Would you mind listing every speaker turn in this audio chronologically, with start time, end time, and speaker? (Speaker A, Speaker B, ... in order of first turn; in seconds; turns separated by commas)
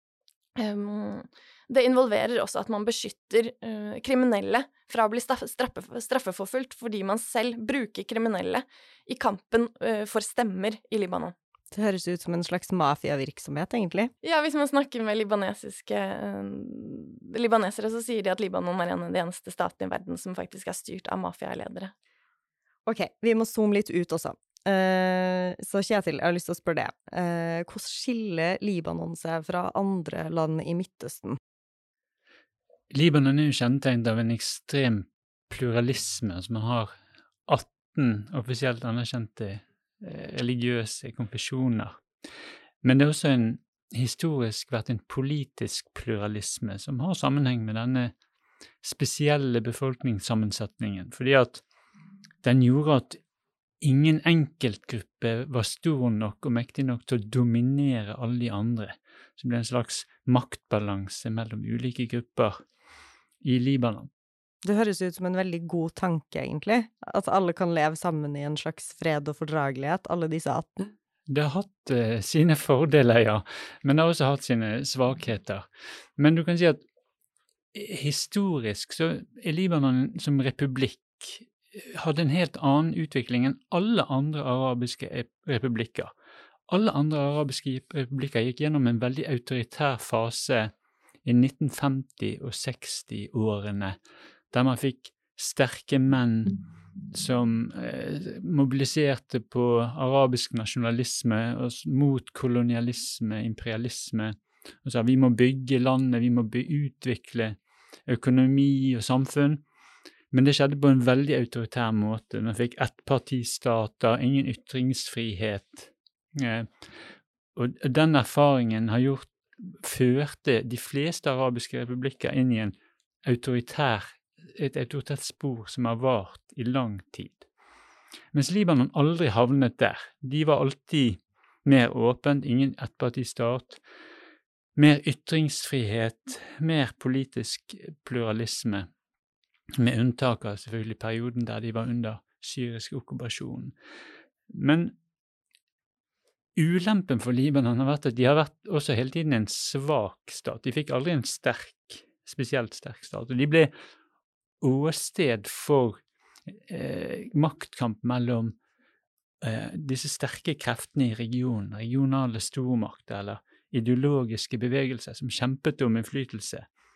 Speaker A: 0.6-11.3, Speaker B: 11.7-14.1, Speaker A: 14.2-21.9, Speaker B: 22.9-31.4, Speaker C: 32.9-36.9, Speaker C: 37.5-42.0, Speaker C: 42.8-48.1, Speaker C: 48.8-51.6, Speaker C: 52.4-53.2, Speaker C: 53.8-62.6, Speaker C: 63.4-64.1, Speaker B: 64.6-70.9, Speaker C: 71.3-75.7, Speaker C: 76.2-76.8, Speaker C: 77.7-86.1, Speaker C: 86.7-90.7, Speaker C: 91.2-94.0, Speaker C: 94.5-96.6, Speaker C: 97.1-109.6, Speaker C: 110.3-116.9, Speaker C: 117.5-127.5, Speaker C: 128.3-133.8, Speaker C: 134.8-138.9, Speaker C: 139.8-143.7, Speaker C: 144.5-144.9, Speaker C: 146.6-153.7, Speaker C: 154.6-158.6, Speaker C: 159.4-166.7